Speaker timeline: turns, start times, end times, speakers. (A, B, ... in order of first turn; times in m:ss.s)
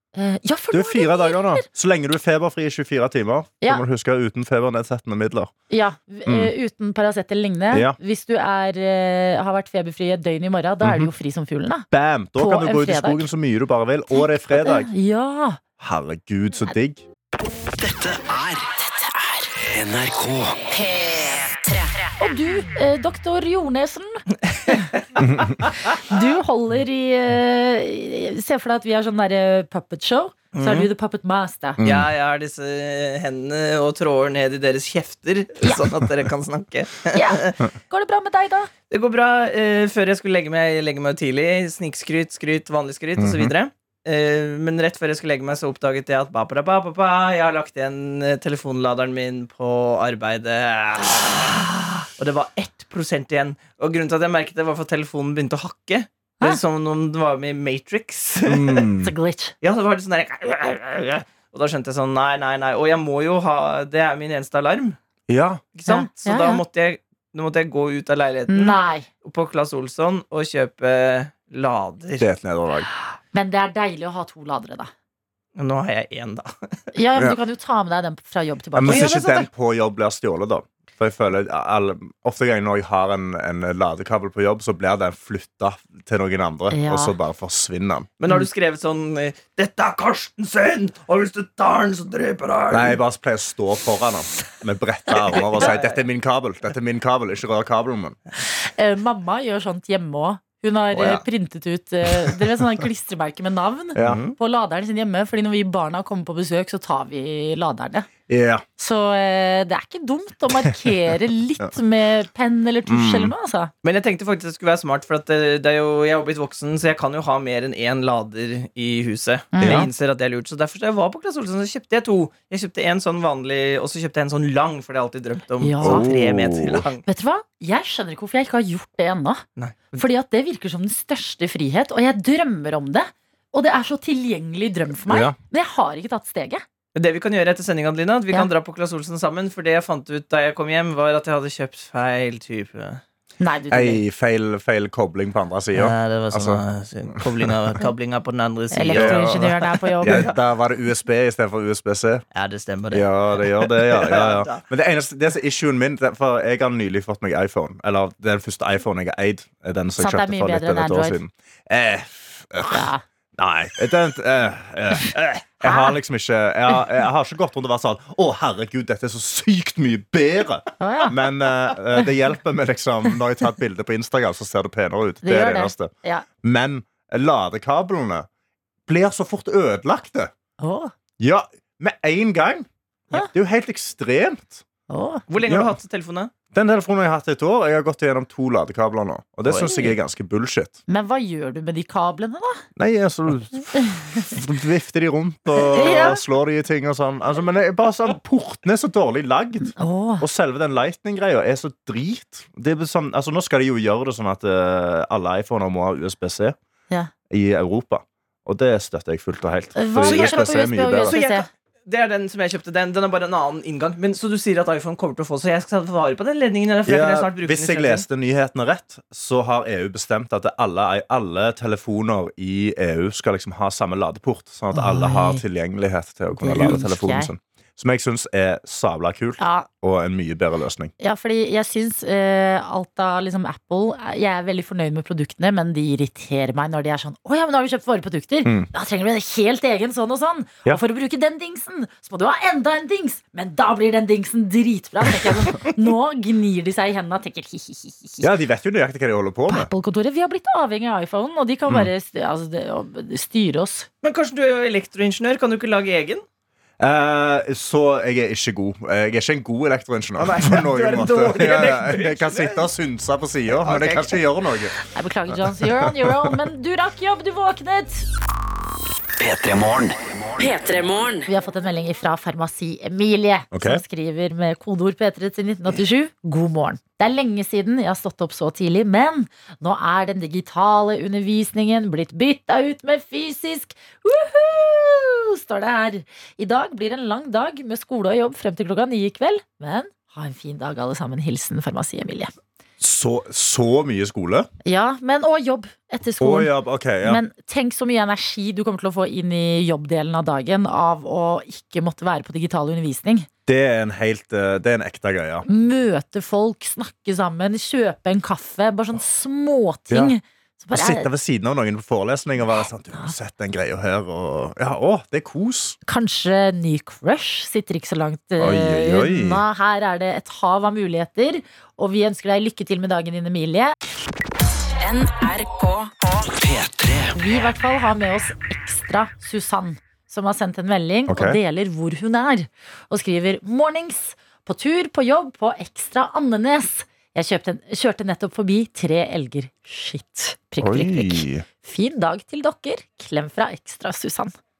0:00.2-0:01.6 A
0:00.7-0:05.5 B
0:05.7-0:13.3 A
0:06.3-0:06.5 B
0:07.7-0:08.0 B
0:10.8-0:11.1 B
0:11.9-0:14.9 B
0:14.1-0:15.6 A
0:15.8-0:17.0 B
0:17.7-0:18.8 C
0:19.6-0:20.6 C
0:20.7-0:22.1 D
0:22.2-0:24.9 A
0:24.4-0:25.1 E
0:25.2-0:25.6 B
0:25.9-0:31.8 A
0:30.6-0:30.9 E
0:31.8-0:32.1 B
0:31.8-0:37.6 E
0:37.1-0:38.7 A
0:38.9-0:58.9 E
0:43.2-0:43.5 B
0:58.5-0:59.1 B
0:59.0-0:59.5 A
0:59.6-1:05.0 E
1:05.3-1:05.6 B
1:05.8-1:12.3 E
1:05.9-1:06.6 A
1:08.5-1:09.1 A
1:12.2-1:12.9 B
1:13.3-1:14.9 A
1:15.6-1:16.5 E
1:16.9-1:19.4 A
1:18.8-1:28.1 B
1:18.9-1:19.5 E
1:26.7-1:27.2 A
1:28.2-1:33.0 E
1:32.7-1:38.2 B
1:35.3-1:36.0 E
1:38.5-1:48.1 A
1:40.9-1:41.2 B
1:42.1-1:42.8 B
1:44.0-1:44.3 B
1:48.3-1:48.6 B
1:48.8-1:53.7 A
1:52.9-1:53.3 B
1:53.8-2:07.0 E
1:59.5-1:59.9 A
1:59.6-1:59.9 B
2:05.6-2:06.1 A
2:05.8-2:06.9 B
2:07.1-2:09.4 A
2:09.6-2:10.0 E
2:10.0-2:16.6 A
2:15.1-2:15.4 B
2:17.0-2:23.0 E
2:23.4-2:24.0 A
2:23.7-2:26.6 B
2:25.7-2:30.3 E
2:28.7-2:30.3 A
2:28.9-2:32.2 B
2:32.3-2:34.6 E
2:32.9-2:55.9 B
2:40.0-2:41.2 A
2:42.7-2:43.0 A
2:45.6-2:46.0 A
2:50.8-2:51.2 A
2:55.2-2:56.3 A
2:56.4-2:58.3 B
2:58.9-3:00.3 B
3:00.6-3:00.9 A
3:01.2-3:04.6 B
3:04.9-3:05.2 A
3:05.3-3:06.3 E
3:05.4-3:05.7 B
3:06.5-3:10.8 B
3:09.5-3:09.8 E
3:10.9-3:12.6 A
3:12.8-3:26.6 B
3:13.8-3:14.2 A
3:15.6-3:16.2 A
3:19.8-3:20.2 A
3:27.3-3:31.2 B
3:29.8-3:31.5 A
3:30.0-3:38.0 E
3:36.9-3:50.9 B
3:44.7-3:45.4 A
3:46.4-3:47.3 A
3:49.4-3:49.7 A
3:51.0-4:08.3 A
4:05.2-4:05.6 B
4:08.2-4:09.7 B
4:09.5-4:13.9 A
4:14.0-4:16.2 E
4:16.8-4:24.8 B
4:20.2-4:22.7 E
4:23.6-4:24.2 E
4:24.8-4:28.0 A
4:25.5-4:26.3 B
4:29.2-4:30.5 C
4:30.4-4:31.3 D
4:31.3-4:52.3 A
4:33.5-4:33.8 B
4:52.8-4:54.5 B
4:54.6-5:03.3 A
4:56.2-4:57.2 B
5:03.5-5:05.5 B
5:05.5-5:11.1 A
5:10.7-5:15.8 B
5:15.9-5:23.7 A
5:18.4-5:19.4 B
5:24.8-5:26.1 D
5:26.3-5:27.2 C
5:27.1-5:44.3 A
5:31.1-5:31.4 B
5:40.6-5:41.5 B